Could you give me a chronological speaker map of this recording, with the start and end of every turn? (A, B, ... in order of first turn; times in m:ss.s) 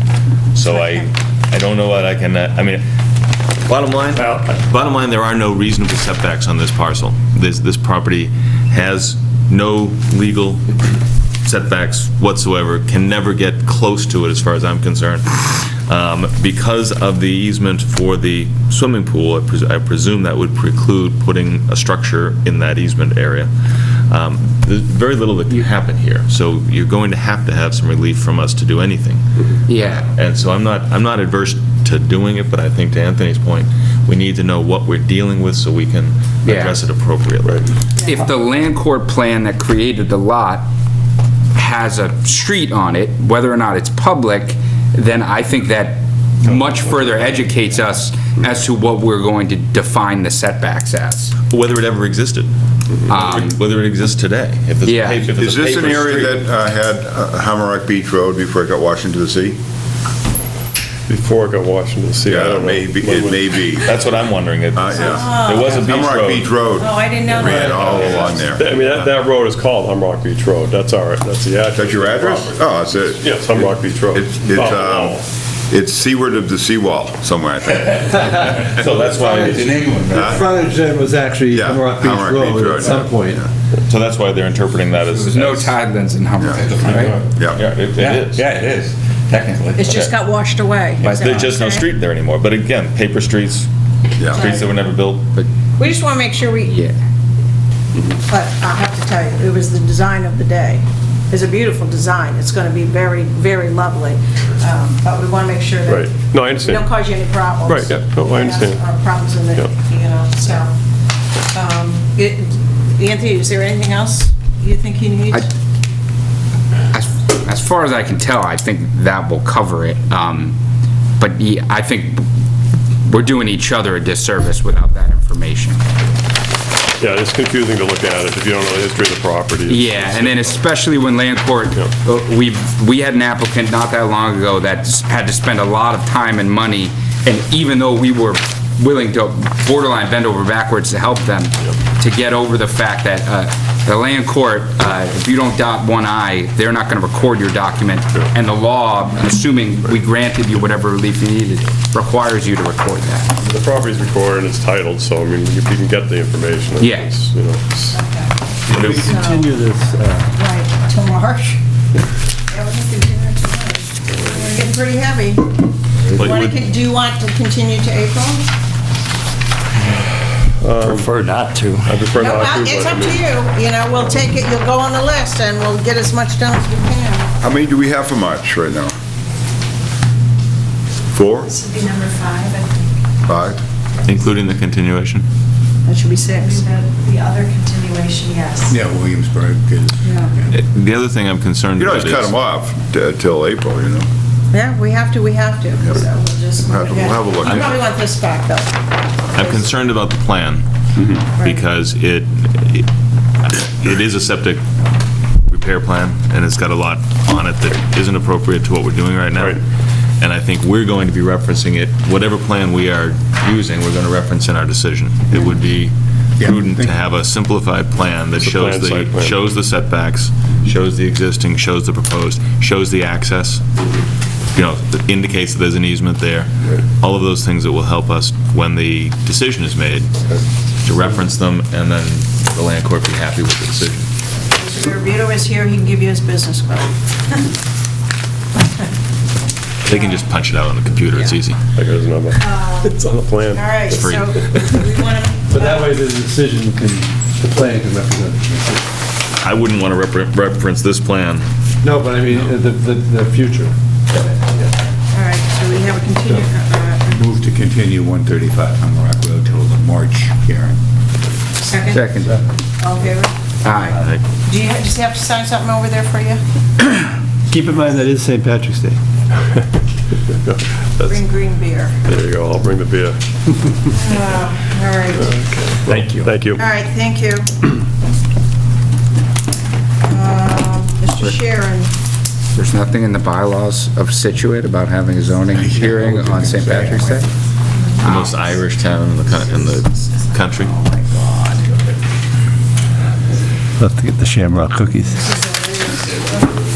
0:00.5-0:02.8 A
0:00.7-0:01.0 B
0:03.7-0:10.7 A
0:11.4-0:23.5 A
0:24.1-0:37.6 A
0:29.7-0:30.1 C
0:36.4-0:36.8 C
0:38.0-0:38.2 B
0:38.0-0:40.7 C
0:41.6-0:51.3 C
0:51.5-0:52.5 A
0:53.1-0:56.4 A
0:53.1-0:53.6 C
0:54.8-0:55.2 C
0:55.3-0:59.6 D
1:01.1-1:03.7 E
1:02.3-1:03.9 D
1:03.8-1:06.6 A
1:04.7-1:08.7 D
1:04.9-1:05.8 B
1:06.8-1:08.4 B
1:07.6-1:08.3 A
1:07.8-1:15.3 E
1:11.8-1:18.5 D
1:18.5-1:19.9 A
1:19.4-1:20.6 F
1:19.4-1:20.5 D
1:20.2-1:23.4 G
1:21.5-1:23.5 D
1:23.9-1:25.8 A
1:25.2-1:27.2 C
1:26.4-1:27.6 D
1:26.6-1:27.2 F
1:27.5-1:28.5 A
1:28.0-1:29.9 F
1:29.8-1:31.9 B
1:29.9-1:30.1 A
1:31.0-1:33.7 A
1:31.0-1:31.5 C
1:34.2-1:34.6 D
1:34.2-1:35.3 A
1:34.3-1:34.7 B
1:35.8-1:36.8 B
1:38.1-1:50.7 B
1:45.9-1:46.9 E
1:47.7-1:49.7 E
1:51.5-1:55.5 B
1:56.9-2:00.6 C
2:01.2-2:02.2 C
2:03.1-2:05.8 C
2:07.0-2:10.6 E
2:09.7-2:33.3 C
2:33.4-2:38.0 E
2:36.8-2:37.1 C
2:37.9-2:39.5 B
2:38.7-2:39.0 A
2:38.8-2:40.3 G
2:40.4-2:41.6 B
2:42.5-2:45.6 B
2:46.1-2:48.5 B
2:46.1-2:46.6 A
2:50.6-2:51.3 E
2:51.0-2:51.9 G
2:51.8-2:53.4 E
2:52.2-2:57.3 B
2:57.4-2:58.9 D
3:01.1-3:01.6 D
3:01.5-3:02.7 H
3:03.3-3:03.6 D
3:04.0-3:05.2 A
3:05.9-3:06.6 B
3:06.4-3:08.8 H
3:08.7-3:10.4 F
3:10.5-3:12.3 A
3:11.8-3:14.1 D
3:14.5-3:18.9 B
3:16.6-3:17.8 D
3:19.4-3:20.6 A
3:19.4-3:19.6 B
3:21.4-3:21.6 B
3:21.4-3:22.9 A
3:23.4-3:24.7 A
3:25.5-3:29.6 A
3:29.4-3:29.6 E
3:30.2-3:43.6 A
3:36.4-3:36.9 F
3:38.4-3:39.4 E
3:44.5-3:50.1 A
3:50.8-3:54.1 A
3:54.4-3:57.0 B
3:59.8-4:01.6 A
3:59.9-4:00.2 B
4:01.7-4:04.0 E
4:02.4-4:03.0 B
4:03.5-4:06.0 B
4:03.9-4:05.0 A
4:05.5-4:08.8 G
4:09.4-4:11.4 A
4:11.8-4:13.7 G
4:15.1-4:17.2 B
4:17.1-4:20.8 F
4:21.6-4:23.3 B
4:21.9-4:22.3 C
4:23.6-4:24.0 C
4:24.0-4:24.2 A
4:24.5-4:26.4 B
4:27.5-4:29.0 C
4:30.3-4:31.3 E
4:31.1-4:32.0 B
4:32.0-4:33.7 E
4:33.9-4:35.3 B
4:35.2-4:36.6 E
4:36.6-4:37.5 B
4:40.0-4:41.9 B
4:42.6-4:47.3 C
4:45.5-4:47.2 F
4:48.0-4:50.8 A
4:48.2-4:48.6 H
4:50.8-4:51.5 H
4:53.8-4:54.6 C
4:54.1-4:55.1 G
4:55.2-4:56.2 B